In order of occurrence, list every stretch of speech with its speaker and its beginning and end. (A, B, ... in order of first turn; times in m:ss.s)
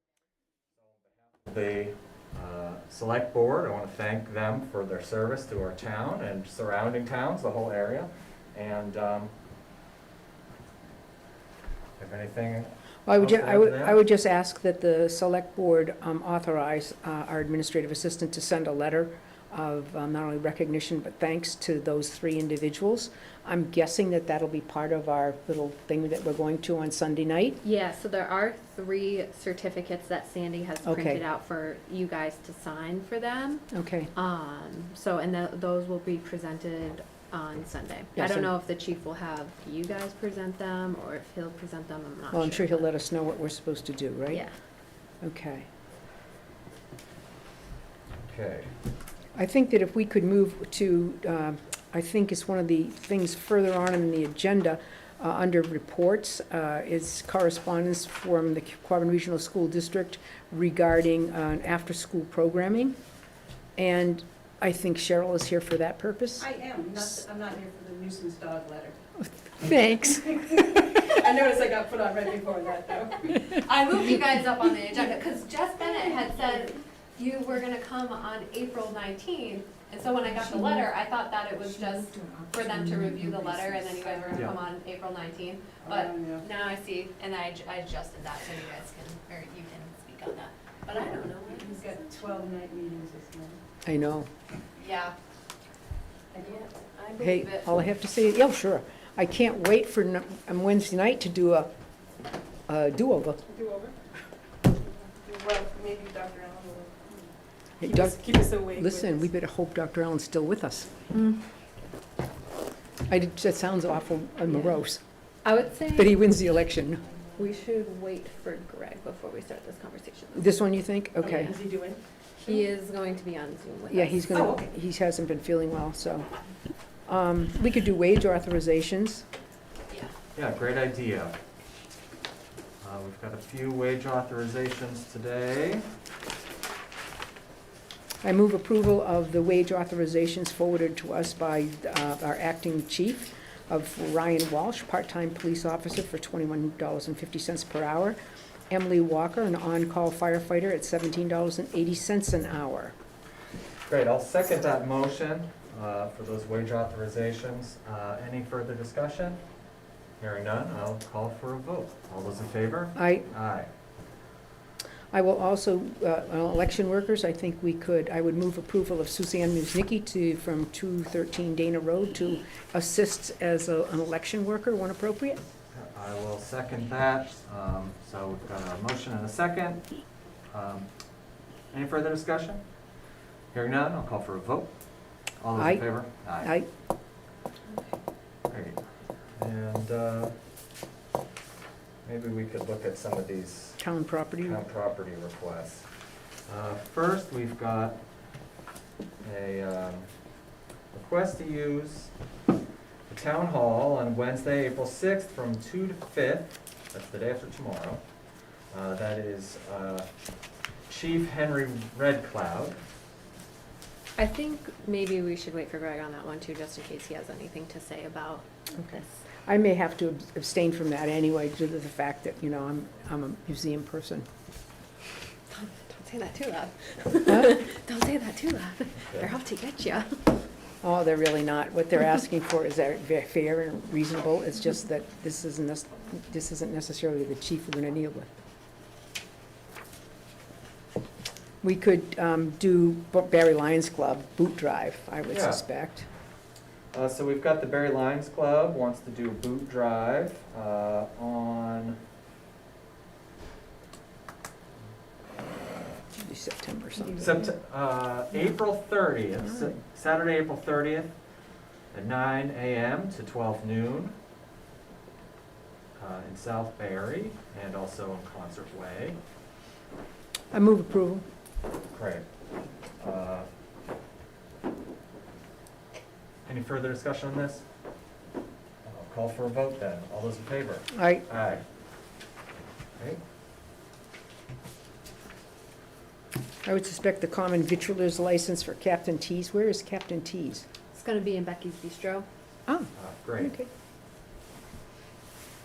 0:00.7-0:09.3 A
0:12.0-0:14.0 A
0:13.0-0:27.6 B
0:27.6-0:42.9 C
0:30.8-0:31.2 B
0:33.7-0:34.1 B
0:38.2-0:38.5 B
0:42.3-0:44.4 B
0:45.2-0:45.6 B
0:48.3-0:48.7 A
0:49.3-1:03.0 B
1:03.8-1:06.4 B
1:06.4-1:09.0 D
1:09.2-1:10.4 B
1:10.1-1:13.5 D
1:13.5-1:32.1 C
1:24.0-1:24.4 D
1:25.8-1:26.4 D
1:31.6-1:33.6 D
1:33.8-1:34.3 B
1:34.8-1:35.1 C
1:36.3-1:36.6 D
1:36.4-1:37.6 C
1:37.2-1:41.7 B
1:42.7-1:43.4 B
1:43.5-1:44.0 D
1:45.1-1:49.2 D
1:47.8-1:50.9 B
1:51.1-1:51.4 C
1:53.1-1:55.0 B
1:55.4-1:56.1 C
1:55.9-1:57.1 B
1:57.4-2:00.5 C
2:00.3-2:01.6 B
2:01.2-2:02.6 D
2:02.4-2:04.3 C
2:03.9-2:06.2 B
2:04.3-2:04.7 D
2:07.1-2:09.2 B
2:10.4-2:11.4 A
2:12.8-2:15.8 A
2:18.2-2:28.2 B
2:28.7-2:32.9 B
2:33.9-2:39.4 A
2:40.2-2:43.7 A
2:42.9-2:43.3 B
2:45.1-2:55.4 B
2:55.7-2:59.8 A
3:00.5-3:00.9 A
3:01.7-3:02.6 A
3:03.5-3:04.7 A
3:05.4-3:06.5 A
3:05.6-3:05.8 B
3:06.4-3:06.7 B
3:08.5-3:08.8 A
3:09.4-3:10.3 A
3:12.0-3:13.8 A
3:13.8-3:14.6 B
3:14.4-3:15.9 A
3:16.5-3:18.0 A
3:19.2-3:20.1 A
3:20.9-3:22.1 A
3:23.1-3:28.0 A
3:28.7-3:30.1 A
3:30.9-3:32.8 A
3:34.2-3:39.1 C
3:38.8-3:44.2 B
3:45.5-3:50.2 C
3:47.3-3:47.5 B
3:50.8-3:58.3 B
4:01.6-4:06.1 B
4:05.3-4:05.6 A
4:06.9-4:12.0 A
4:16.2-4:17.4 B
4:17.2-4:21.1 A
4:21.9-4:24.2 A
4:26.0-4:29.2 A
4:30.5-4:31.2 B
4:31.9-4:32.2 A
4:33.0-4:33.5 A
4:36.5-4:37.6 A
4:38.8-4:41.6 A
4:40.9-4:41.2 B
4:46.6-4:50.6 B
4:50.9-4:52.3 C
4:52.7-4:53.7 B
4:52.9-4:53.6 A